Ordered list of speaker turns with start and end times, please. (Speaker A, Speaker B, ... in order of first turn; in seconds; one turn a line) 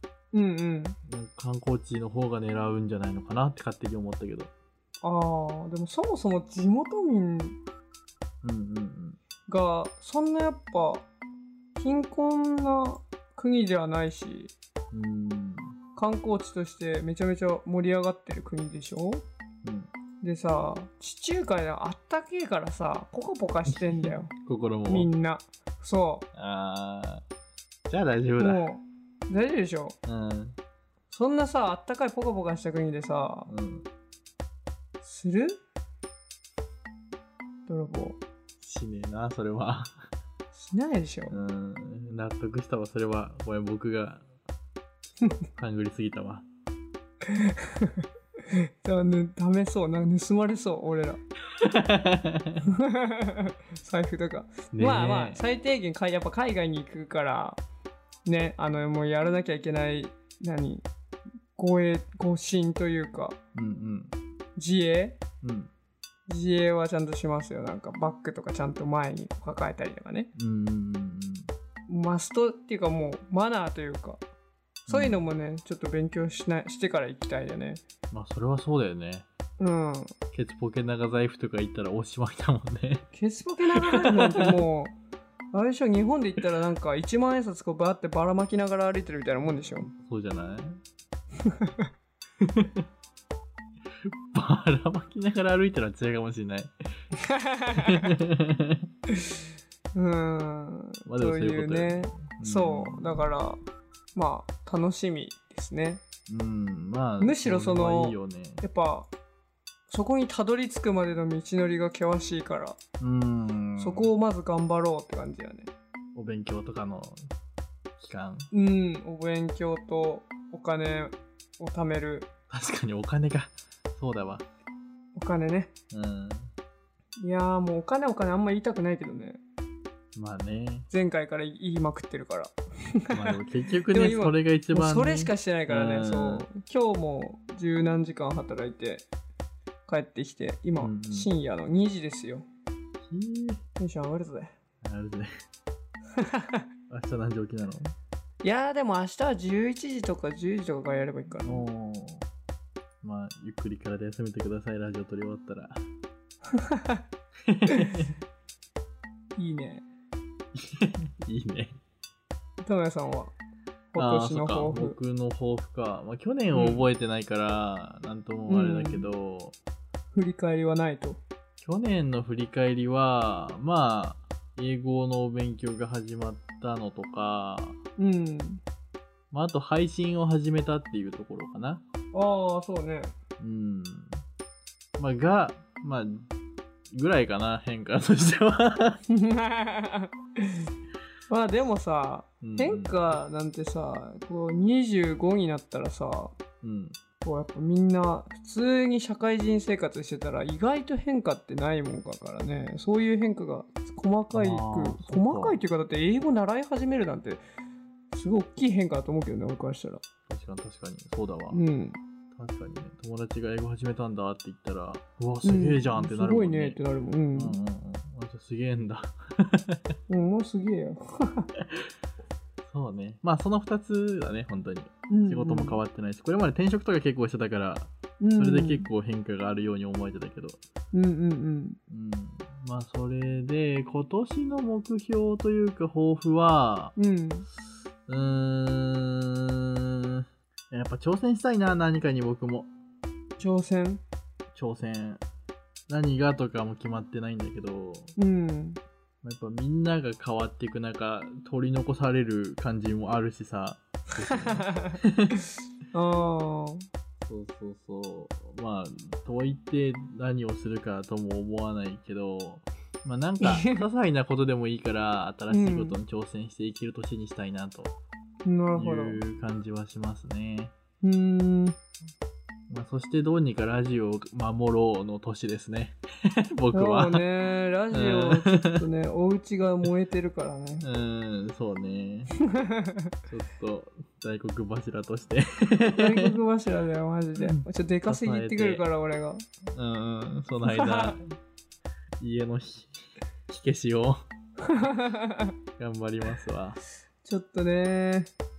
Speaker A: 0.3-1.0
Speaker B: 1.1-4.5
Speaker A: 5.0-7.6
Speaker B: 8.4-9.2
Speaker A: 9.5-11.1
Speaker A: 11.8-14.5
Speaker B: 14.9-15.8
Speaker A: 16.0-19.2
Speaker B: 19.6-19.9
Speaker A: 20.2-24.3
Speaker B: 23.7-25.1
Speaker A: 24.9-26.3
Speaker B: 26.3-27.2
Speaker B: 27.9-28.7
Speaker A: 28.4-30.0
Speaker B: 30.1-30.6
Speaker A: 31.1-33.5
Speaker B: 33.5-33.9
Speaker A: 35.0-35.6
Speaker A: 37.7-38.2
Speaker B: 38.6-40.1
Speaker A: 40.5-41.4
Speaker B: 41.3-44.2
Speaker B: 45.2-46.5
Speaker A: 47.2-51.2
Speaker B: 51.5-52.6
Speaker A: 52.6-57.6
Speaker B: 54.7-55.4
Speaker A: 58.3-60.9
Speaker A: 61.6-63.4
Speaker B: 63.5-64.1
Speaker A: 64.6-65.2
Speaker B: 65.4-65.7
Speaker A: 66.3-70.3
Speaker B: 70.3-71.5
Speaker A: 71.9-74.2
Speaker A: 74.9-77.8
Speaker B: 74.9-75.2
Speaker B: 78.1-79.3
Speaker A: 79.6-80.1
Speaker B: 80.3-83.1
Speaker A: 83.1-85.0
Speaker B: 83.8-84.6
Speaker A: 85.5-89.9
Speaker B: 89.6-90.8
Speaker A: 91.4-91.9
Speaker B: 92.4-92.8
Speaker B: 94.0-96.7
Speaker A: 97.2-98.1
Speaker B: 97.8-98.9
Speaker A: 99.1-99.4
Speaker A: 99.9-103.6
Speaker B: 101.1-103.3
Speaker A: 104.2-106.0
Speaker B: 106.3-108.6
Speaker A: 107.2-109.1
Speaker A: 109.9-112.8
Speaker B: 113.0-114.1
Speaker A: 113.8-115.7
Speaker B: 116.2-117.3
Speaker B: 118.0-118.5
Speaker A: 118.5-122.3
Speaker B: 122.5-124.5
Speaker A: 125.2-125.7
Speaker B: 125.9-126.5
Speaker A: 127.2-129.4
Speaker B: 130.2-130.9
Speaker A: 130.9-139.1
Speaker B: 133.1-136.5
Speaker A: 139.9-142.5
Speaker B: 140.8-141.3
Speaker B: 143.0-143.6
Speaker A: 143.8-144.5
Speaker B: 144.8-145.3
Speaker A: 146.2-146.6
Speaker B: 146.9-147.9
Speaker A: 148.4-151.7
Speaker B: 151.4-152.3
Speaker B: 153.0-155.9
Speaker A: 156.5-157.0
Speaker B: 157.4-158.1
Speaker A: 157.7-157.9
Speaker A: 159.4-159.8
Speaker B: 160.5-161.8
Speaker A: 162.6-163.3
Speaker A: 163.9-165.0
Speaker B: 164.0-169.6
Speaker A: 166.5-166.9
Speaker A: 168.5-169.1
Speaker A: 170.1-171.2
Speaker B: 171.6-177.8
Speaker A: 178.0-178.6
Speaker B: 179.3-181.8
Speaker A: 182.1-183.2
Speaker B: 183.4-184.2
Speaker B: 185.0-186.3
Speaker B: 186.9-189.0
Speaker A: 189.1-190.7
Speaker A: 191.3-196.3
Speaker B: 192.4-193.1
Speaker B: 196.6-197.0
Speaker A: 197.2-207.4
Speaker B: 204.3-205.6
Speaker A: 208.1-210.0
Speaker B: 210.3-211.6
Speaker A: 211.5-212.0
Speaker B: 212.3-216.8
Speaker A: 215.4-217.6
Speaker B: 217.3-220.0
Speaker A: 220.1-221.5
Speaker B: 221.6-221.9
Speaker B: 222.7-230.6
Speaker A: 225.1-225.8
Speaker A: 228.2-228.9
Speaker A: 230.9-231.8
Speaker B: 231.9-236.9
Speaker A: 237.0-237.5
Speaker B: 238.1-242.7
Speaker A: 243.4-244.0
Speaker B: 244.6-245.2
Speaker B: 245.9-248.1
Speaker A: 248.2-248.8
Speaker B: 249.2-255.4
Speaker A: 254.2-255.0
Speaker A: 255.9-256.9
Speaker B: 257.2-267.9
Speaker A: 263.4-263.8
Speaker A: 265.5-266.0
Speaker A: 268.4-269.2
Speaker B: 268.8-270.7
Speaker A: 271.0-271.8
Speaker B: 272.7-277.2
Speaker A: 276.7-280.9
Speaker B: 277.9-278.8
Speaker B: 280.8-282.4
Speaker A: 282.5-283.1
Speaker B: 283.3-286.4
Speaker A: 285.9-289.4
Speaker B: 287.4-288.8
Speaker B: 289.7-291.4
Speaker A: 290.6-291.2
Speaker B: 292.2-294.2
Speaker A: 294.6-295.6
Speaker B: 295.8-296.8
Speaker A: 297.2-298.3